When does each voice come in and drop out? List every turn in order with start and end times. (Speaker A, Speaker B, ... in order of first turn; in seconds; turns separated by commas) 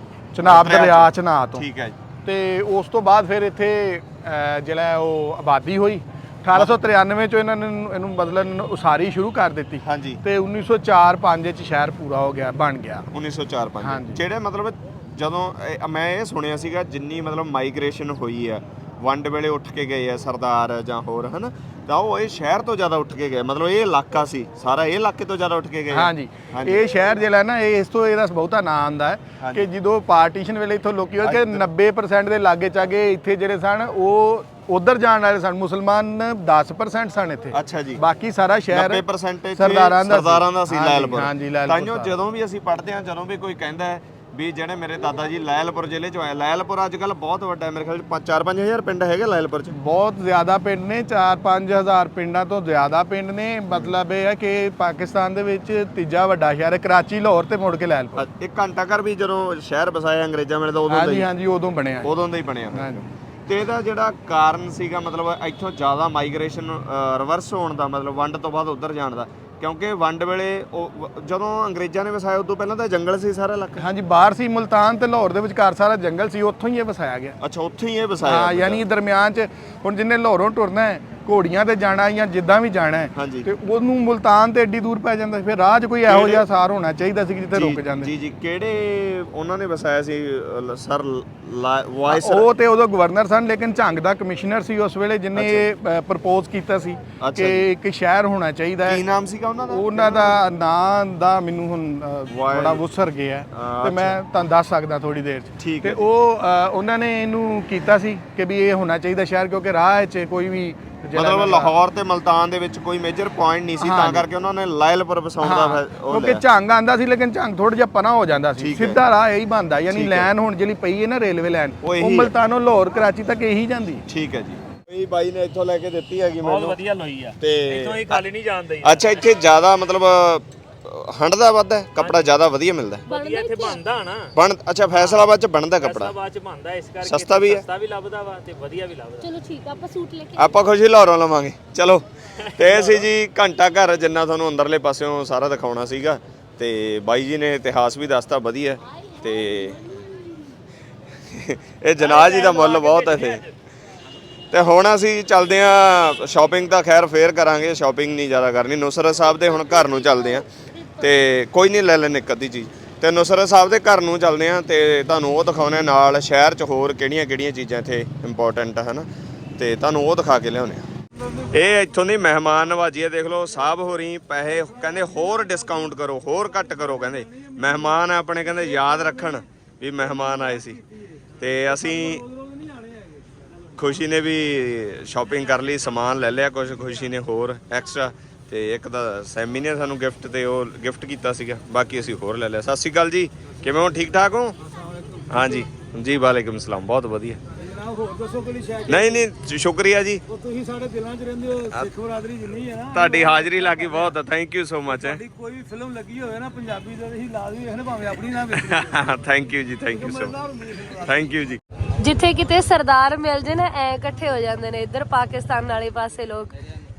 Speaker A: 0.3-1.6, Speaker B: 0.4-2.0, Speaker A: 2.2-13.1, Speaker B: 9.8-10.2, Speaker B: 13.1-26.9, Speaker A: 13.8-14.2, Speaker A: 25.9-39.0, Speaker B: 29.4-29.6, Speaker B: 31.2-31.7, Speaker B: 37.5-38.0, Speaker B: 38.7-49.8, Speaker A: 39.5-42.1, Speaker A: 49.7-58.2, Speaker B: 53.7-54.0, Speaker B: 58.1-61.3, Speaker A: 60.9-62.1, Speaker B: 62.0-73.9, Speaker A: 62.7-63.0, Speaker A: 73.8-77.3, Speaker B: 77.4-78.8, Speaker A: 78.3-88.1, Speaker B: 83.2-83.5, Speaker B: 86.1-86.5, Speaker B: 87.5-92.5, Speaker A: 92.1-99.0, Speaker B: 95.3-95.7, Speaker B: 97.2-97.7, Speaker B: 98.8-100.4, Speaker A: 99.7-111.7, Speaker B: 102.3-102.8, Speaker B: 103.5-104.2, Speaker B: 105.6-106.0, Speaker B: 111.2-116.4, Speaker A: 113.8-114.3, Speaker A: 115.4-124.0, Speaker B: 118.5-119.0, Speaker B: 119.9-120.3, Speaker B: 121.8-122.3, Speaker B: 124.1-126.8, Speaker C: 126.4-129.3, Speaker B: 127.4-128.2, Speaker B: 128.8-133.0, Speaker C: 132.0-132.3, Speaker C: 133.1-134.3, Speaker D: 133.1-133.8, Speaker B: 134.3-136.1, Speaker C: 134.9-139.3, Speaker B: 137.1-137.7, Speaker D: 139.2-140.7, Speaker B: 140.4-142.1, Speaker C: 142.4-143.1, Speaker B: 142.6-149.8, Speaker D: 149.0-150.5, Speaker B: 151.3-153.4, Speaker C: 152.0-153.5, Speaker B: 154.5-160.5, Speaker D: 159.3-161.3, Speaker B: 161.0-170.9, Speaker B: 171.5-180.8, Speaker B: 181.4-182.2, Speaker E: 181.7-183.2, Speaker B: 183.8-194.6, Speaker E: 194.7-195.7, Speaker B: 195.3-197.4, Speaker E: 197.6-199.2, Speaker B: 198.9-200.2, Speaker E: 200.3-204.1, Speaker B: 202.9-205.2, Speaker E: 204.9-209.1, Speaker B: 208.5-211.6, Speaker E: 209.9-211.3, Speaker D: 212.0-216.6